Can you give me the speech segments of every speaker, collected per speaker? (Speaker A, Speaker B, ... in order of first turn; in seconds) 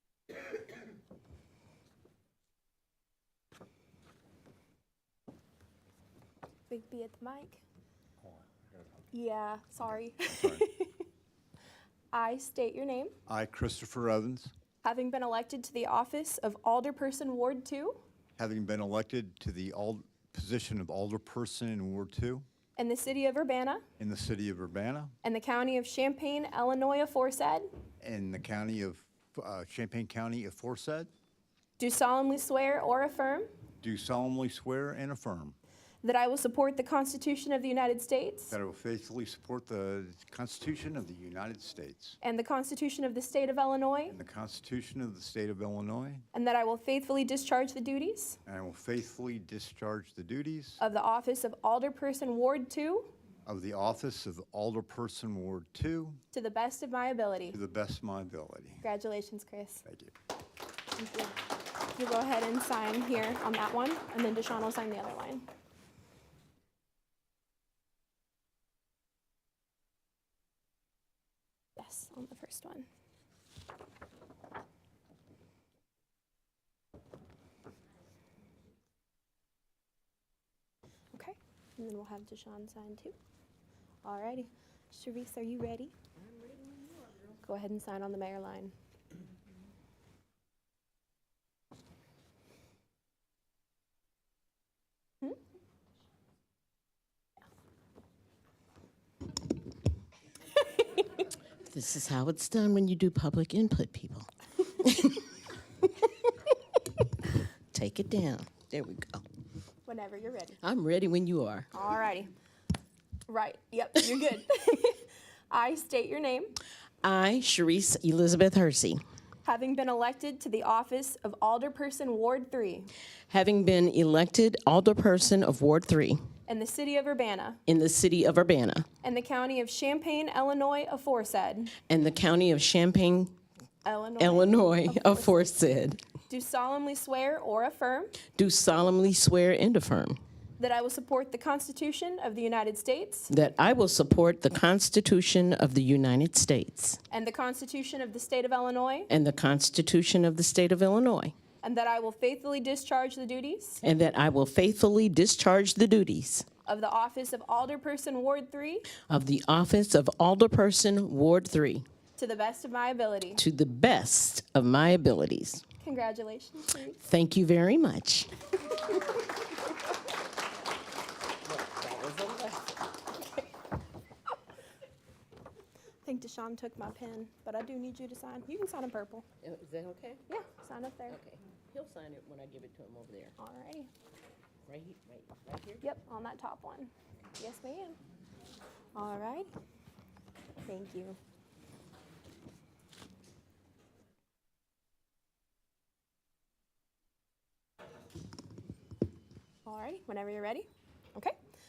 Speaker A: 6.7-7.6, 9.1-10.9, 12.1-13.1, 14.8-18.0, 22.8-23.8, 25.2-27.7, 31.8-33.5, 36.0-38.6, 42.2-44.2, 46.3-48.4, 50.8-53.1, 56.3-57.6, 58.8-59.8, 61.0-61.4, 61.9-65.5, 71.8-72.8, 81.1-83.2, 84.0-85.9, 87.4-88.7, 109.8-110.6, 111.7-112.3, 113.3-116.5, 119.4-122.9, 126.5-127.6, 129.0-131.7, 133.8-135.4, 136.3-138.2, 140.6-143.3, 147.1-149.1, 151.6-153.8, 156.7-158.9, 162.2-163.4, 165.8-167.1, 176.0-179.2, 180.3-181.2, 183.4-183.9, 185.8-188.0, 188.9-189.5, 190.6-191.2, 199.6-201.3
Speaker B: 10.2-10.7, 13.3-14.5, 18.4-22.4, 24.0-25.1, 28.0-31.1, 33.8-35.5, 38.5-42.2, 44.1-46.2, 48.5-50.8, 53.5-56.2, 57.5-58.8, 59.9-60.1
Speaker C: 86.3-87.1, 101.7-104.3, 104.8-105.2, 107.7-109.2, 110.6-111.7, 117.0-119.0, 123.3-126.2, 127.7-128.8, 131.9-133.3, 134.2-136.0, 138.3-140.2, 143.3-147.0, 149.1-151.3, 153.8-156.4, 159.1-161.8, 163.4-165.6, 167.0-168.3, 171.4-172.7, 179.4-180.2, 181.1-183.3, 184.7-185.8